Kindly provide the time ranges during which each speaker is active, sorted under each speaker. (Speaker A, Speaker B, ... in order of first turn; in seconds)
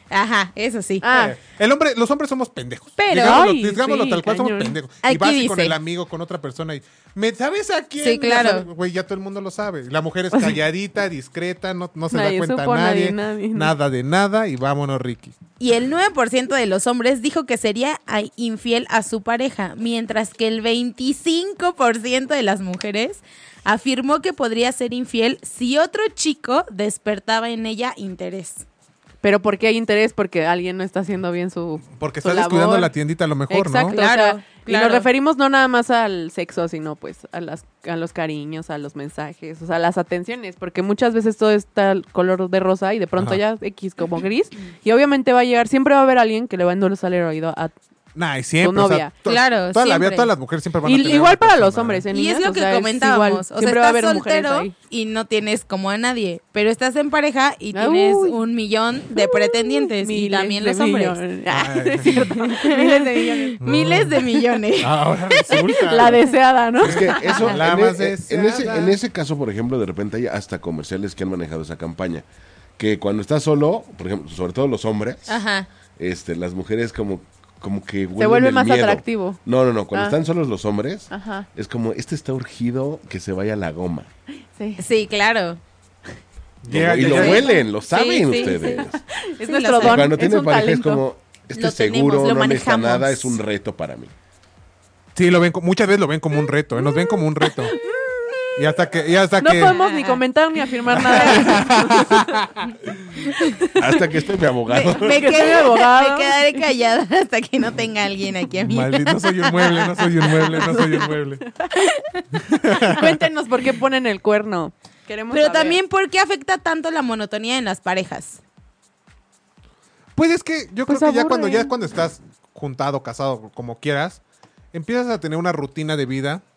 Speaker A: 0.1-1.1, 3.0-3.4, 5.0-5.8, 8.0-8.7, 15.6-28.6, 33.9-35.1, 49.3-50.3, 52.1-61.2, 62.3-65.0, 67.3-67.6, 75.3-75.7, 84.8-85.6, 87.0-88.9, 89.4-90.2, 91.5-93.4, 99.8-100.2, 103.3-103.6, 104.7-111.0, 111.7-112.2, 115.3-118.4
Speaker B: 1.0-1.4, 3.1-4.8, 12.1-13.7, 29.2-32.9, 33.5-47.7, 48.6-49.1, 50.8-54.7, 57.7-58.4, 59.1-63.6, 65.5-67.4, 78.2-79.4, 81.1-81.5, 84.5-84.8, 88.3-91.0, 97.7-98.5, 99.4-102.4, 105.0-106.6, 112.8-115.8, 120.9-121.7
Speaker C: 1.1-15.3, 32.0-34.0, 48.2-52.0, 61.5-62.4, 63.6-64.2, 64.8-66.2, 66.8-69.0, 86.6-87.5, 95.2-97.8, 98.6-99.8, 100.9-102.6, 108.7-111.4, 112.4-113.2, 120.2-124.2, 124.7-126.4
Speaker D: 66.8-72.2, 72.8-75.4, 76.0-84.1, 86.7-89.0, 89.8-94.1, 103.8-105.4